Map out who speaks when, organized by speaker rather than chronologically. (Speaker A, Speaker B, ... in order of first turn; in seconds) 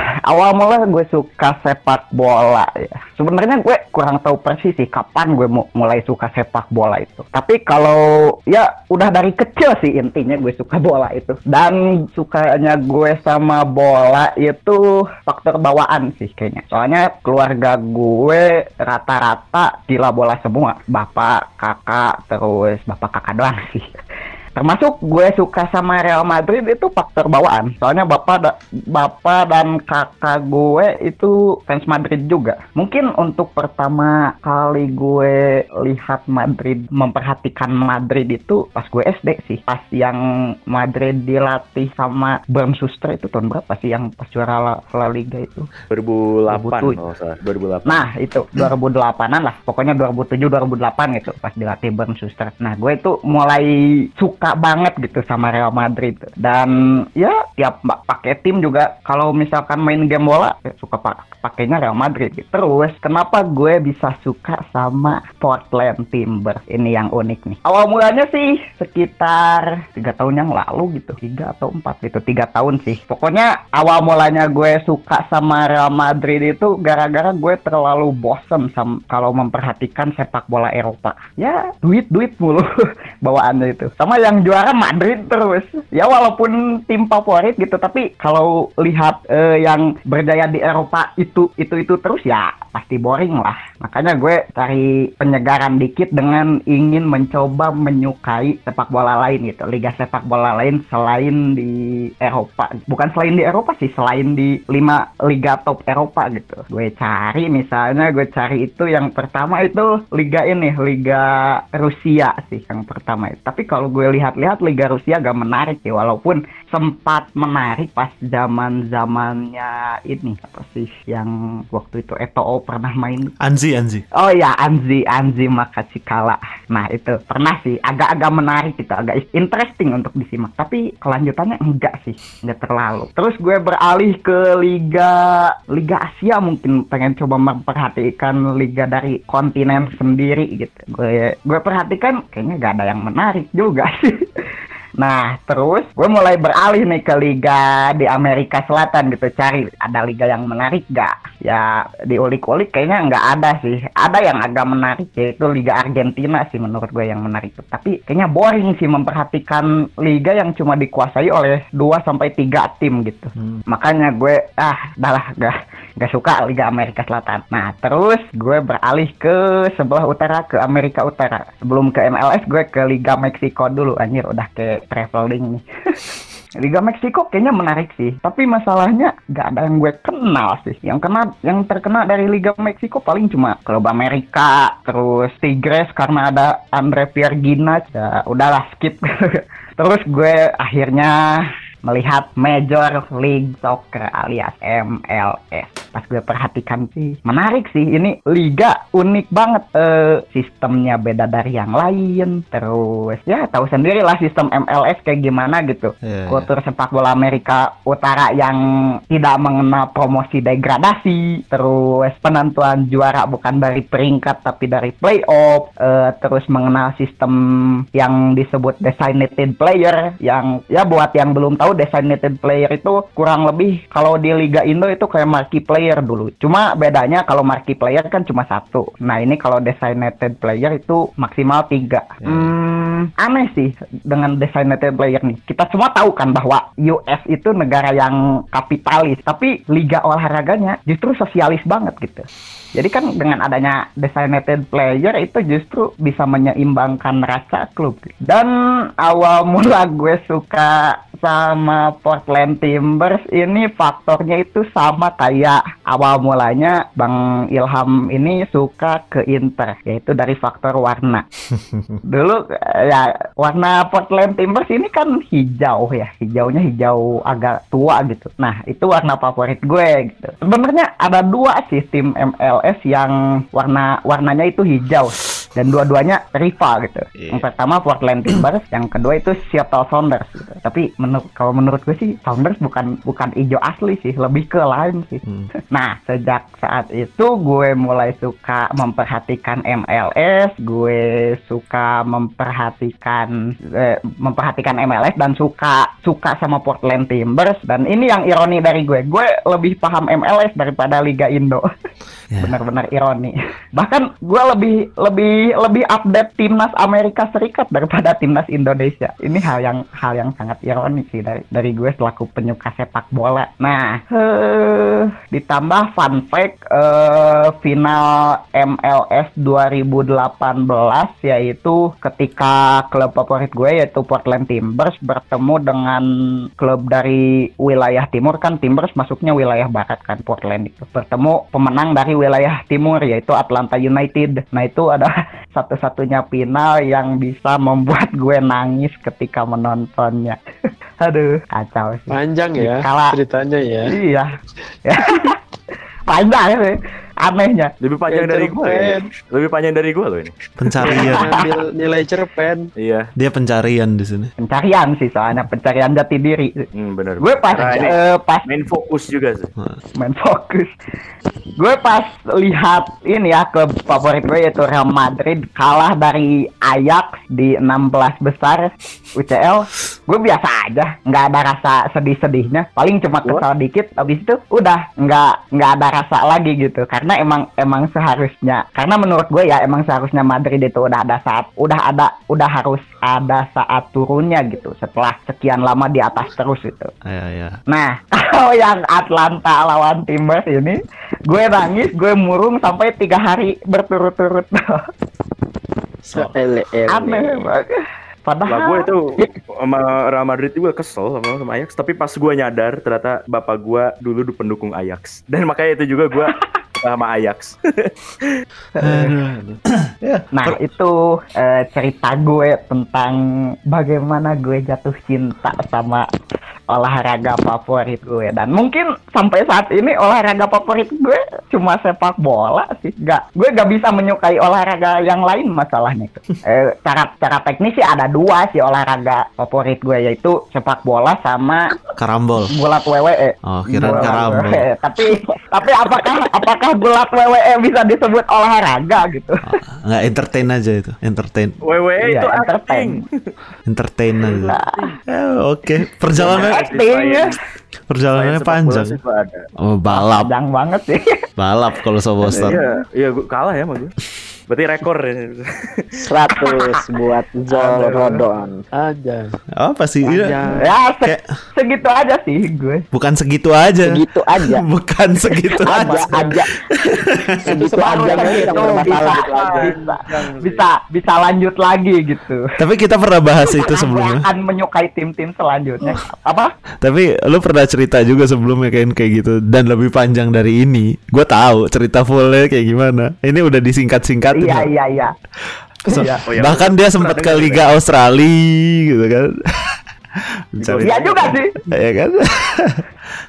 Speaker A: 0.2-23.9, 24.6-45.7, 46.5-47.0, 47.9-123.3, 124.2-144.2, 145.0-176.0, 176.6-261.2, 262.0-301.6, 302.4-326.1, 326.6-340.4, 341.0-343.2, 343.8-344.3, 344.8-345.4, 346.1-347.7, 350.9-351.5, 354.4-356.6, 357.2-358.4, 360.0-360.7, 361.6-386.9, 387.7-394.9, 396.9-397.7, 398.2-399.3, 408.8-409.1, 410.3-416.1, 416.7-431.7, 432.5-439.6, 442.0-443.0, 444.5-444.9, 446.2-447.3, 449.9-451.2, 452.2-452.6, 460.6-462.8, 464.3-464.6, 465.3-466.5, 467.5-472.5, 473.4-476.5, 484.3-485.1, 485.9-486.2, 490.8-491.6
Speaker B: 45.9-48.1, 347.8-350.4, 352.8-353.1, 356.7-359.5, 398.5-408.3, 433.8-434.1, 441.6-443.1, 444.2-445.0, 446.1-447.4, 448.1-449.4, 452.3-453.9, 454.5-455.9, 457.6-457.8, 468.3-470.7, 486.3-487.7, 490.6-491.4
Speaker C: 123.4-124.0, 206.0-206.5, 232.2-232.5, 261.6-262.0, 277.2-277.5, 302.3-302.6, 350.6-351.4, 353.1-354.3, 387.0-387.6, 396.0-396.3, 408.8-410.6, 432.0-432.5, 433.5-434.7, 439.5-441.5, 443.7-444.6, 445.1-446.6, 447.9-448.9, 449.6-450.3, 451.4-452.6, 459.6-460.4, 462.9-467.6, 472.6-474.3, 476.8-484.7, 485.9-489.8, 490.5-492.8
Speaker D: 342.1-344.0, 348.1-349.1, 350.8-352.7, 458.7-459.3, 460.0-460.7, 467.5-469.1
Speaker E: 396.2-397.4, 456.0-458.6, 463.9-464.5, 465.7-466.4, 467.4-469.7